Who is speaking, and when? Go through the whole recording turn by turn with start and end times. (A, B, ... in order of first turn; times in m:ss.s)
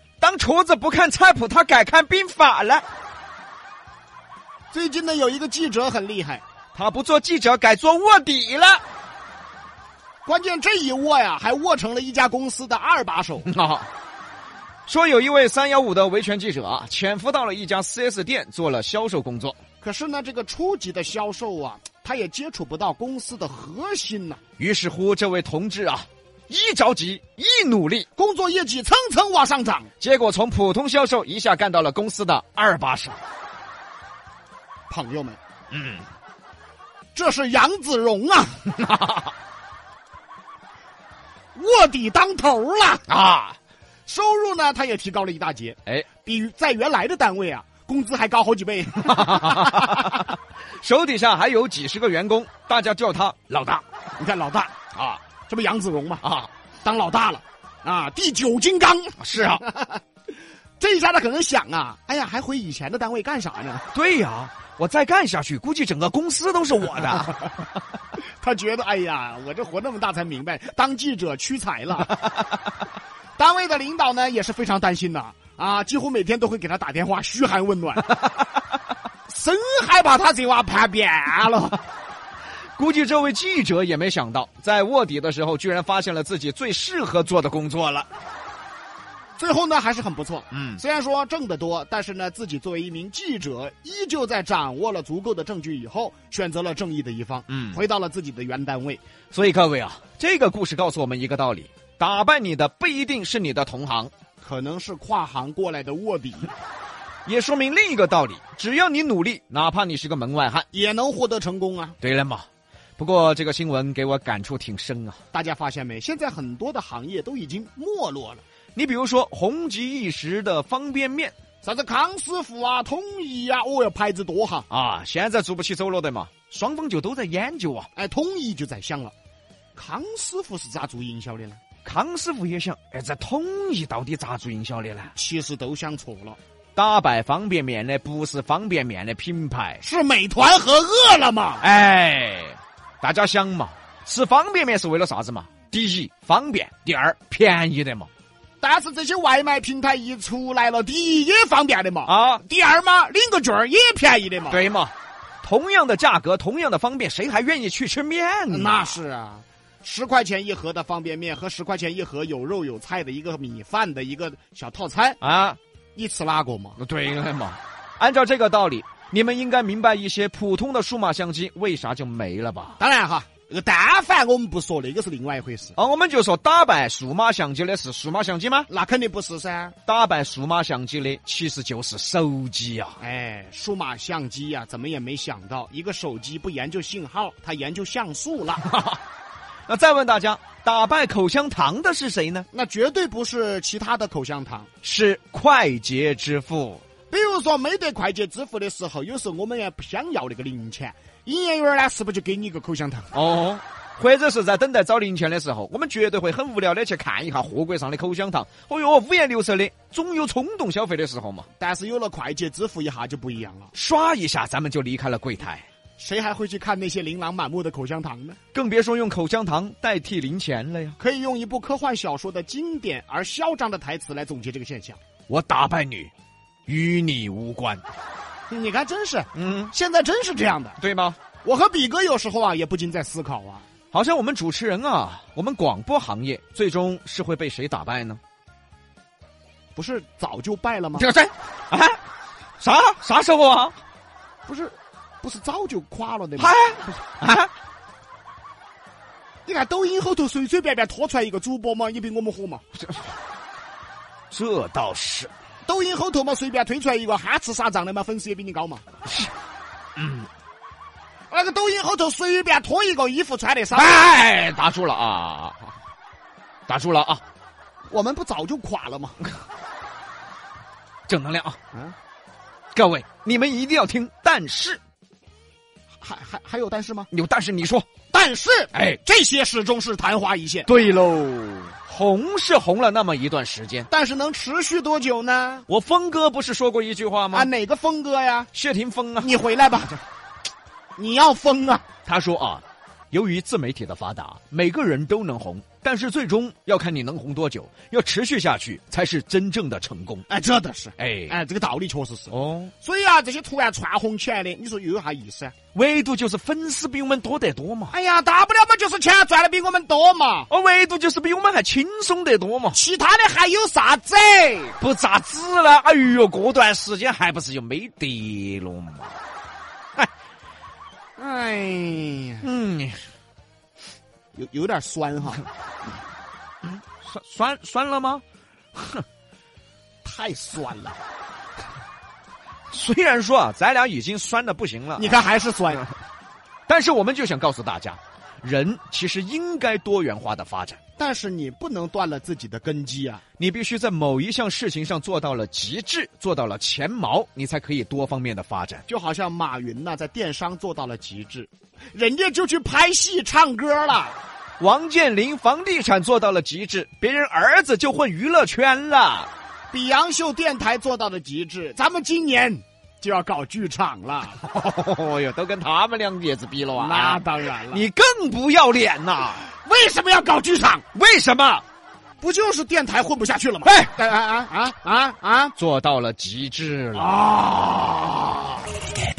0:00.2-0:02.9 A
0:04.7-0:06.4 B
0:06.8-0:08.8 A
0:10.2-0:13.5 B
0:13.4-0:13.9 A
0:14.9-0:19.6 A
0:19.8-0:24.4 B
0:24.6-0:28.1 A
0:28.2-0:29.9 B
0:30.0-0:33.2 A
0:34.9-0:35.4 B
0:35.7-0:36.0 A
0:37.2-0:38.6 B
0:38.8-0:39.2 A
0:41.6-0:43.1 B
0:43.1-0:43.6 A
0:44.1-0:50.2 B
0:49.0-0:53.8 A
0:54.2-0:54.7 B
0:54.9-0:55.2 A
0:55.5-0:56.2 B
0:56.2-0:56.5 A
0:56.8-1:00.0 B
0:59.2-0:59.6 A
1:00.8-1:03.9 B
1:03.9-1:07.5 A
1:08.4-1:12.2 B
1:13.4-1:18.2 B
1:19.3-1:21.8 B
1:22.8-1:28.1 A
1:29.4-1:39.0 B
1:30.5-1:30.8 A
1:37.5-1:37.8 A
1:39.3-1:44.1 A
1:44.4-1:46.5 B
1:47.3-1:50.7 A
1:50.7-1:52.0 B
1:52.0-1:52.5 A
1:53.0-1:55.2 A
1:55.3-1:58.4 B
1:58.8-2:01.3 A
2:01.6-2:04.7 B
2:04.7-2:07.9 A
2:08.0-2:09.1 B
2:09.8-2:11.6 B
2:11.8-2:15.1 A
2:15.2-2:16.4 B
2:16.8-2:19.8 A
2:19.8-2:21.6 B
2:21.6-2:28.1 A
2:28.6-2:34.6 B
2:32.1-2:32.4 A
2:34.5-2:39.0 A
2:38.5-2:45.2 B
2:45.2-2:45.6 A
2:46.0-2:46.8 B
2:46.8-2:52.8 A
2:52.8-2:55.8 B
2:55.8-2:58.7 A
2:58.7-2:59.8 B
2:59.9-3:03.0 A
3:03.0-3:08.6 B
3:08.7-3:09.0 A
3:09.7-3:12.5 A
3:12.5-3:14.7 B
3:14.8-3:16.8 A
3:17.1-3:23.1 B
3:23.1-3:31.5 A
3:31.6-3:33.7 B
3:33.7-3:35.7 A
3:36.0-3:38.4 B
3:38.5-3:41.0 A
3:41.0-3:45.0 B
3:45.3-3:46.1 A
3:46.7-3:47.8 A
3:48.5-3:50.8 B
3:49.3-3:49.7 A
3:50.8-3:51.2 A
3:51.4-3:53.7 B
3:53.9-3:58.2 A
3:59.8-4:01.1 B
4:01.0-4:02.0 A
4:02.6-4:03.8 A
4:04.5-4:06.8 B
4:06.4-4:07.5 A
4:09.5-4:12.6 B
4:14.3-4:15.3 A
4:15.7-4:18.8 B
4:20.0-4:20.3 A
4:21.3-4:24.0 B
4:23.7-4:25.7 A
4:26.7-4:27.2 A
4:27.9-4:29.2 B
4:31.1-4:31.6 A
4:32.7-4:34.8 A
4:36.0-4:37.1 B
4:37.1-4:37.9 A
4:38.1-4:40.7 B
4:38.7-4:39.0 A
4:40.7-4:43.9 A
4:43.9-4:45.7 B
4:45.7-4:47.5 A
4:47.3-4:48.5 B
4:48.5-4:49.3 A
4:49.2-4:50.0 B
4:51.0-4:51.8 B
4:52.0-5:00.2 A
5:00.3-5:05.6 B
5:01.0-5:01.3 A
5:02.3-5:02.7 A
5:05.7-5:08.0 A
5:07.9-5:10.5 B
5:10.5-5:12.8 A
5:12.7-5:14.8 B
5:14.8-5:19.2 A
5:21.2-5:22.5 B
5:22.4-5:23.0 A
5:24.3-5:25.4 B
5:26.6-5:28.2 A
5:28.8-5:29.0 A
5:30.0-5:31.0 B
5:32.7-5:35.2 A
5:35.0-5:35.9 B
5:36.7-5:40.8 A
5:41.0-5:43.2 B
5:43.4-5:48.8 A
5:48.9-5:54.2 B
5:54.6-5:59.3 A
5:59.7-6:04.4 B
6:04.4-6:09.5 A
6:06.8-6:07.8 B
6:09.6-6:10.8 B
6:10.9-6:11.6 A
6:12.2-6:15.6 B
6:13.6-6:13.9 A
6:15.6-6:17.2 A
6:17.0-6:18.2 B